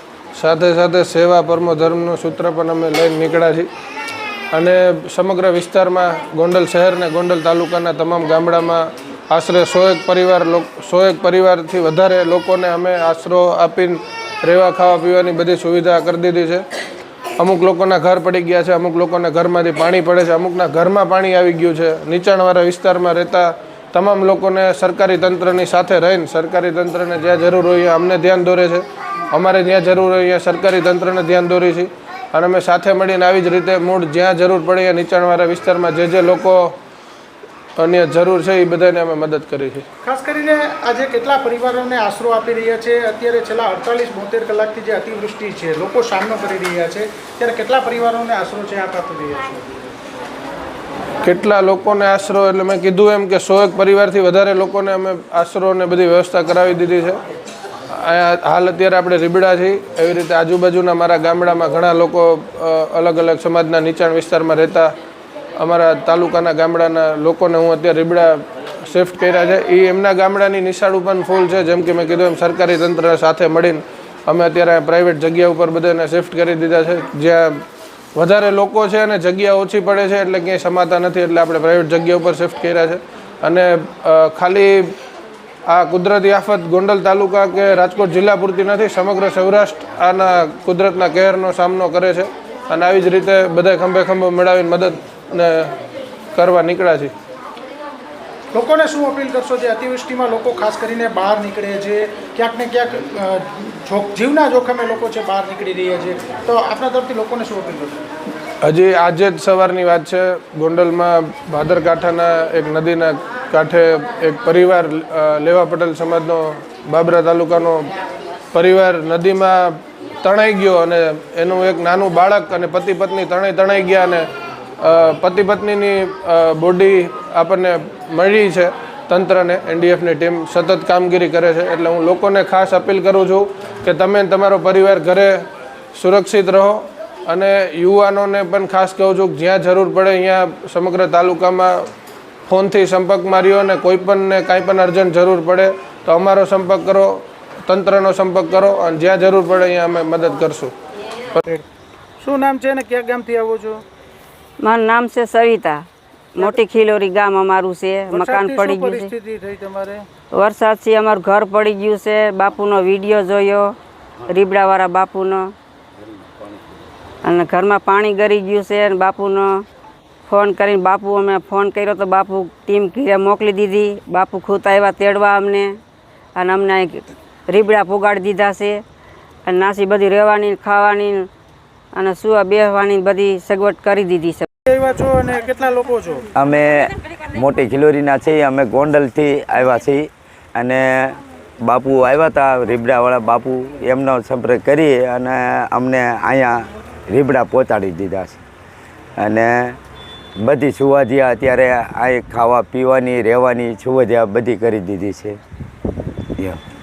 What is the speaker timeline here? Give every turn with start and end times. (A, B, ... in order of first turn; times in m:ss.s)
0:00.4-0:03.7 A
0:04.5-0:16.6 A
0:17.4-0:36.8 A
0:37.8-0:39.8 A
0:40.0-0:49.6 B
0:51.2-0:57.2 A
0:57.9-1:04.9 A
1:05.6-1:17.6 A
1:18.2-1:24.9 A
1:25.7-1:35.7 A
1:36.4-1:37.1 A
1:38.5-1:48.0 B
1:48.6-1:57.9 A
1:58.5-2:04.3 A
2:04.8-2:21.8 A
2:22.5-2:30.7 A
2:32.2-2:33.8 B
2:34.6-2:39.1 C
2:38.1-2:40.0 B
2:40.3-2:43.7 C
2:44.3-2:45.5 C
2:47.2-2:49.6 C
2:50.3-2:55.8 C
2:56.4-2:58.8 C
2:59.4-3:01.3 C
3:01.9-3:04.4 C
3:04.7-3:06.2 B
3:06.4-3:18.4 D
3:19.2-3:19.8 D
3:20.4-3:25.4 D